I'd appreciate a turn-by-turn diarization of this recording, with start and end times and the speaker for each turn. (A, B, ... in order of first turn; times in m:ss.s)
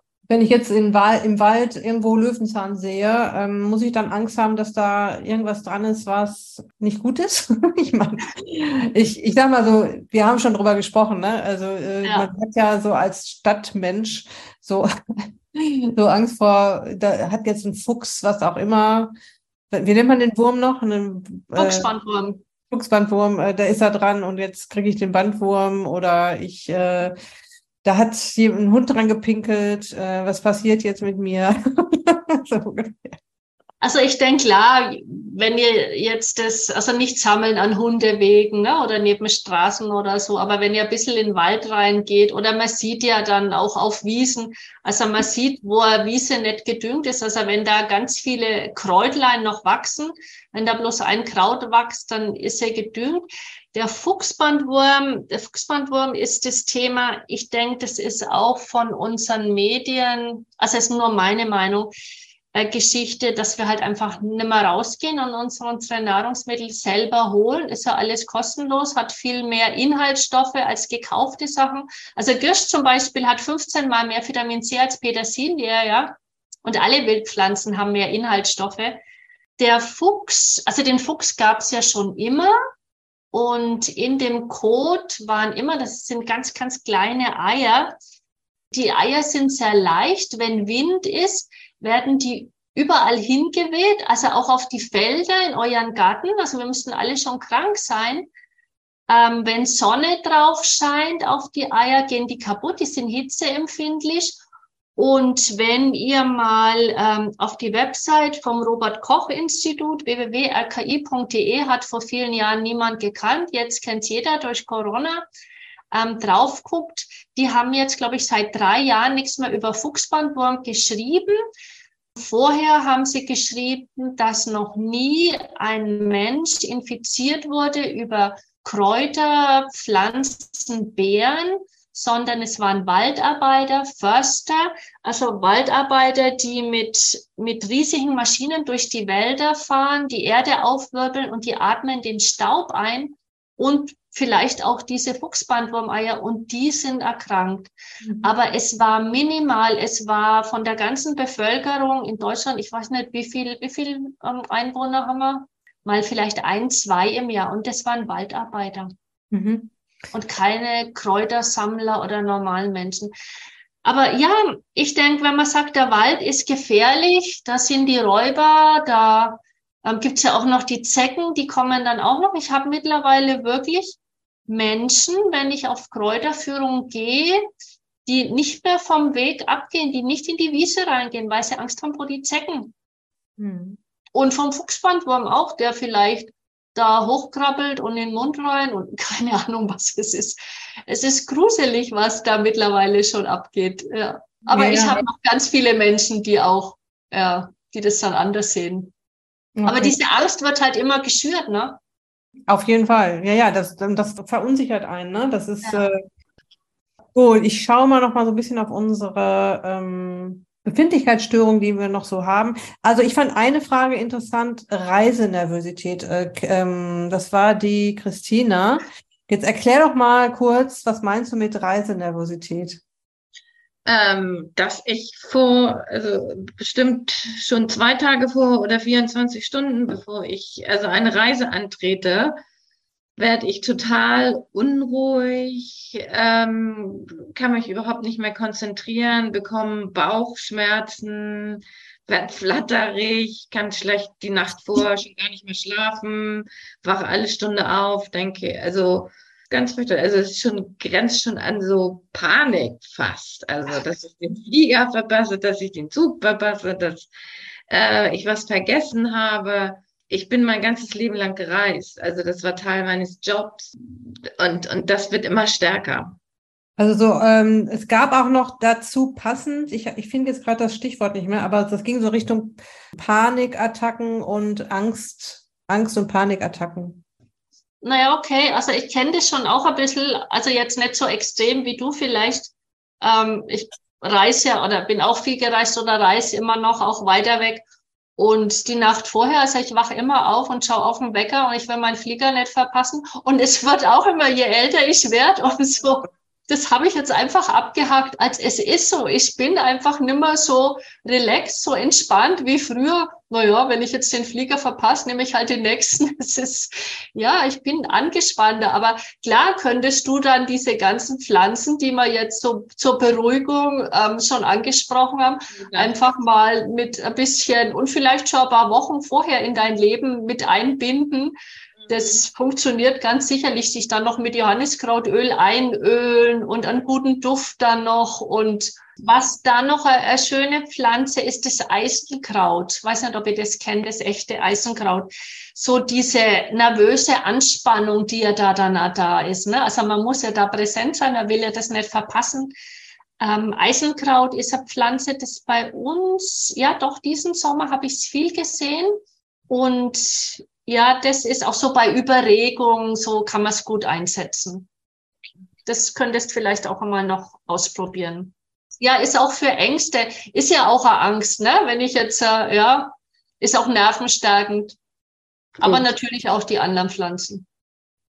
0:00.3-0:14.9 A
0:12.0-0:12.3 B
0:15.6-0:19.1 A
0:19.7-0:21.9 A
0:21.6-0:22.4 B
0:22.7-0:27.2 A
0:27.8-0:33.2 A
0:33.8-1:01.9 B
1:02.5-1:19.0 B
1:19.6-1:22.5 B
1:23.3-1:28.0 B
1:28.7-1:38.3 B
1:39.1-1:44.4 B
1:45.0-1:55.3 B
1:55.9-2:01.4 B
2:02.2-2:27.7 B
2:28.0-2:28.3 A
2:28.2-2:38.9 B
2:39.3-2:39.7 A
2:40.1-2:43.1 B
2:43.8-2:57.5 B
2:58.1-3:02.7 B
3:03.4-3:03.8 A
3:04.1-3:18.9 B
3:14.5-3:15.0 A
3:19.6-3:20.0 A
3:19.7-3:21.8 B
3:22.5-3:26.0 A
3:27.2-3:42.8 A
3:43.9-3:52.4 C
3:53.2-4:17.1 C
4:17.7-4:26.2 C
4:26.8-4:37.0 A
4:37.8-4:47.6 B
4:48.2-5:21.4 B
5:15.6-5:15.9 C
5:21.8-5:22.2 C
5:21.9-5:42.5 B
5:43.2-5:48.9 B
5:49.5-5:54.7 B
5:55.7-6:04.8 B
6:05.6-6:07.4 B